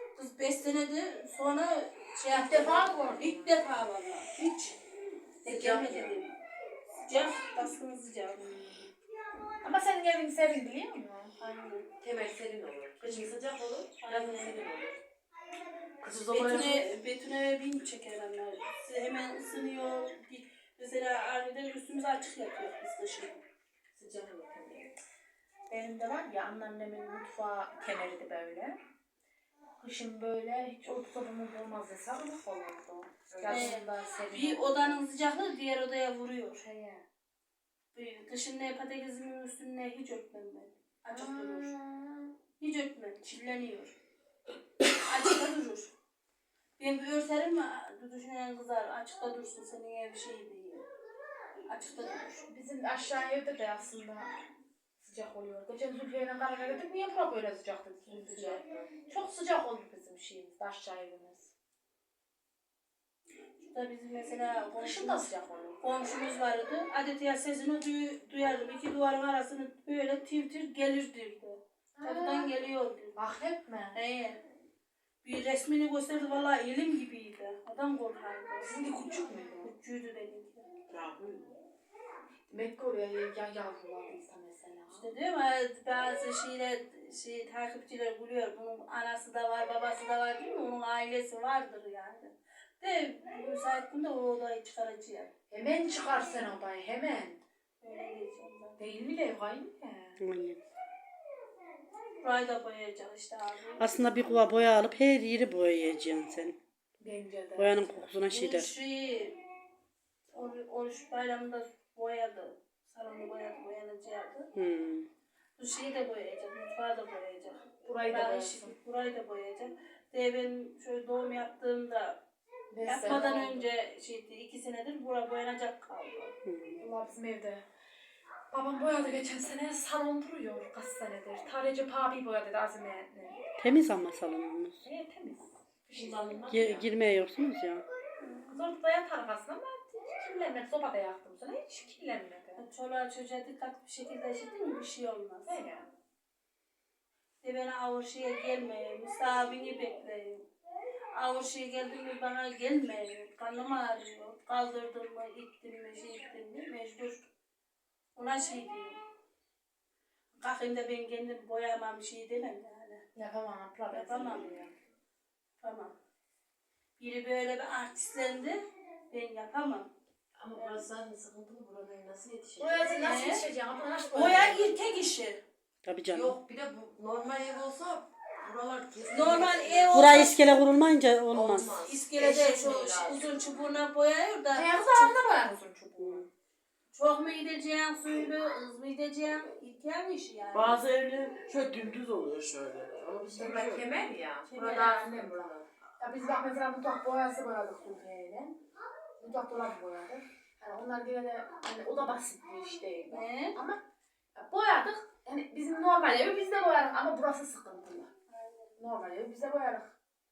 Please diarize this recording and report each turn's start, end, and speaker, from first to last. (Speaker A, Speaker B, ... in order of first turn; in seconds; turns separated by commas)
Speaker A: 0.1-4.8, Speaker B: 2.3-3.6, Speaker A: 5.4-6.3, Speaker C: 5.5-6.2, Speaker A: 7.0-8.5, Speaker B: 8.4-8.9, Speaker B: 9.6-11.3, Speaker A: 11.4-11.9, Speaker C: 12.0-15.0, Speaker A: 14.0-14.6, Speaker D: 16.0-16.9, Speaker A: 16.3-23.4, Speaker C: 24.0-24.9, Speaker B: 25.7-28.8, Speaker B: 29.8-35.1, Speaker C: 33.3-33.8, Speaker A: 33.5-36.6, Speaker B: 36.6-37.0, Speaker A: 37.9-41.7, Speaker B: 41.1-42.3, Speaker A: 42.6-43.9, Speaker A: 45.0-45.9, Speaker A: 46.8-50.9, Speaker A: 51.7-52.4, Speaker B: 52.5-54.3, Speaker B: 55.0-61.5, Speaker C: 58.1-58.9, Speaker A: 63.6-73.2, Speaker B: 64.8-65.8, Speaker B: 72.0-72.5, Speaker B: 73.2-74.0, Speaker A: 73.9-74.4, Speaker A: 75.2-78.8, Speaker B: 78.6-79.7, Speaker A: 79.6-80.7, Speaker D: 80.9-81.5, Speaker B: 82.5-85.1, Speaker A: 84.9-95.3, Speaker B: 95.5-97.4, Speaker A: 97.8-98.8, Speaker B: 98.8-100.2, Speaker E: 100.2-100.6, Speaker A: 102.2-104.5, Speaker E: 103.8-106.6, Speaker B: 107.0-108.0, Speaker E: 107.6-108.7, Speaker A: 108.3-109.4, Speaker A: 110.3-114.5, Speaker E: 114.5-115.1, Speaker A: 115.6-122.2, Speaker B: 117.8-118.7, Speaker B: 122.7-123.7, Speaker A: 122.8-126.3, Speaker E: 126.5-126.8, Speaker B: 126.8-127.6, Speaker B: 128.5-133.4, Speaker E: 133.6-134.9, Speaker B: 134.8-136.5, Speaker C: 135.9-136.9, Speaker E: 136.5-137.9, Speaker A: 138.2-138.6, Speaker B: 138.5-142.6, Speaker A: 142.6-145.6, Speaker B: 145.5-145.9, Speaker A: 147.4-150.5, Speaker A: 151.1-157.3, Speaker A: 158.2-159.0, Speaker A: 160.4-163.0, Speaker B: 163.1-164.7, Speaker A: 163.9-164.5, Speaker A: 165.6-165.9, Speaker A: 167.0-169.9, Speaker C: 170.4-172.9, Speaker B: 172.6-175.0, Speaker A: 173.0-173.4, Speaker A: 174.1-175.4, Speaker E: 175.8-176.4, Speaker C: 176.1-180.3, Speaker A: 179.1-180.4, Speaker E: 179.9-181.8, Speaker C: 181.3-183.3, Speaker A: 181.8-185.1, Speaker B: 184.5-186.3, Speaker E: 186.0-186.2, Speaker A: 186.9-190.8, Speaker D: 190.5-193.9, Speaker C: 193.3-195.7, Speaker A: 194.5-195.0, Speaker B: 194.5-198.6, Speaker B: 199.2-203.8, Speaker A: 203.1-203.6, Speaker B: 204.3-208.1, Speaker A: 208.3-208.8, Speaker B: 208.8-209.9